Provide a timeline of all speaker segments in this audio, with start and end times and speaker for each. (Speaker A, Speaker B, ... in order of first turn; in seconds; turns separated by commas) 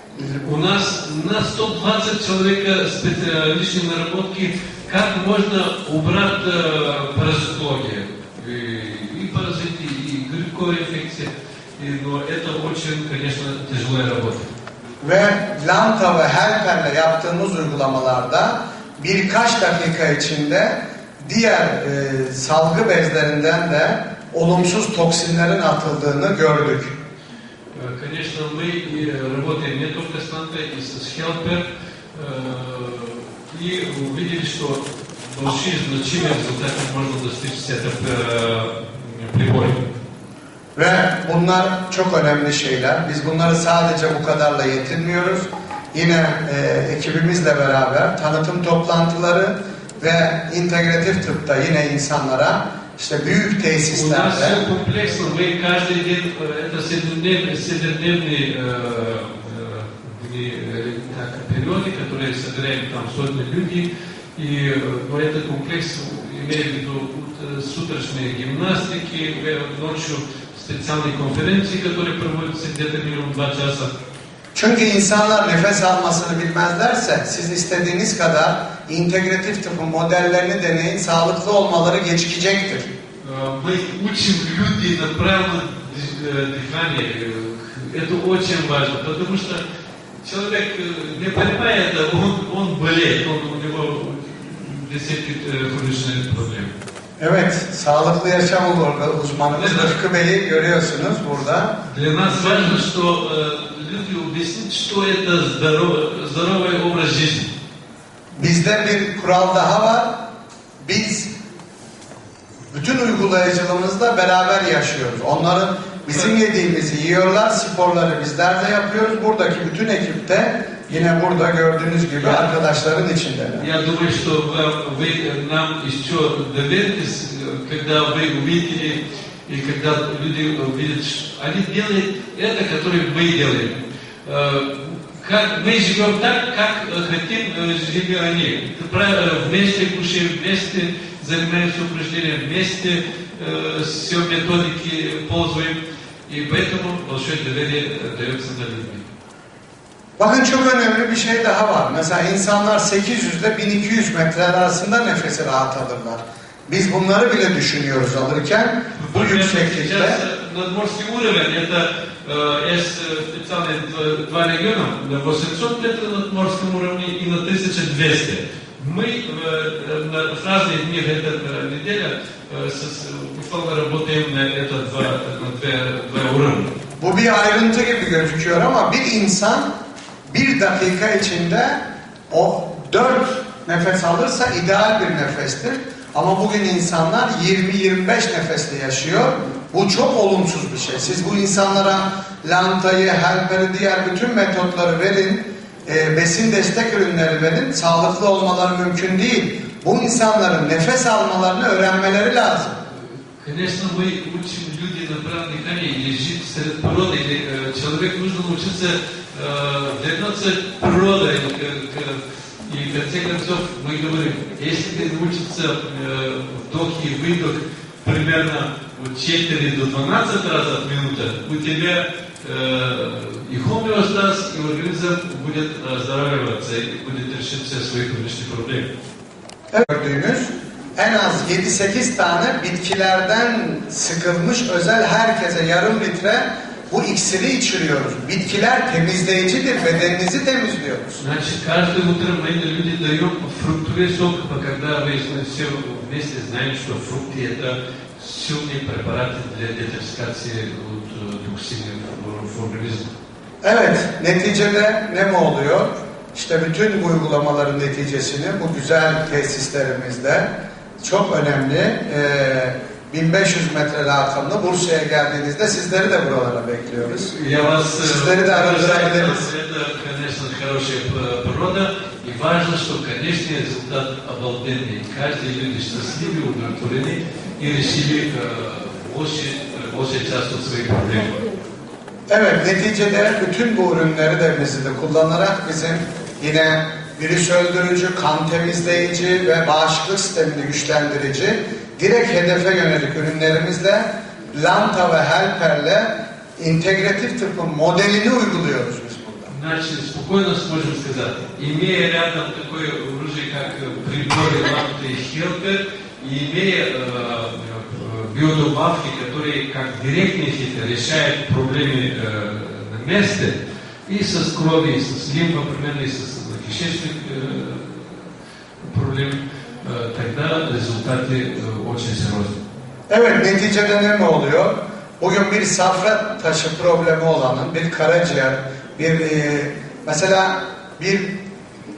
Speaker A: 0.2-0.4, Speaker B: 0.4-14.5, Speaker A: 15.0-26.9, Speaker B: 27.7-39.8, Speaker A: 40.8-54.6, Speaker B: 53.9-73.9, Speaker A: 74.5-82.9, Speaker B: 83.2-89.6, Speaker B: 90.2-96.7, Speaker A: 97.2-101.8, Speaker B: 99.5-100.0, Speaker B: 101.9-107.5, Speaker A: 108.4-110.2, Speaker A: 110.8-111.3, Speaker A: 112.7-123.7, Speaker B: 123.6-149.1, Speaker A: 150.2-160.2, Speaker B: 159.0-176.7, Speaker A: 177.0-179.7, Speaker A: 180.3-202.8, Speaker B: 202.9-228.9, Speaker A: 229.7-241.2, Speaker B: 241.2-253.1, Speaker A: 253.6-267.4, Speaker B: 267.2-281.4, Speaker A: 268.0-269.4, Speaker A: 282.3-299.5, Speaker B: 299.5-313.5, Speaker B: 314.1-318.3, Speaker B: 318.8-322.6, Speaker A: 323.1-331.3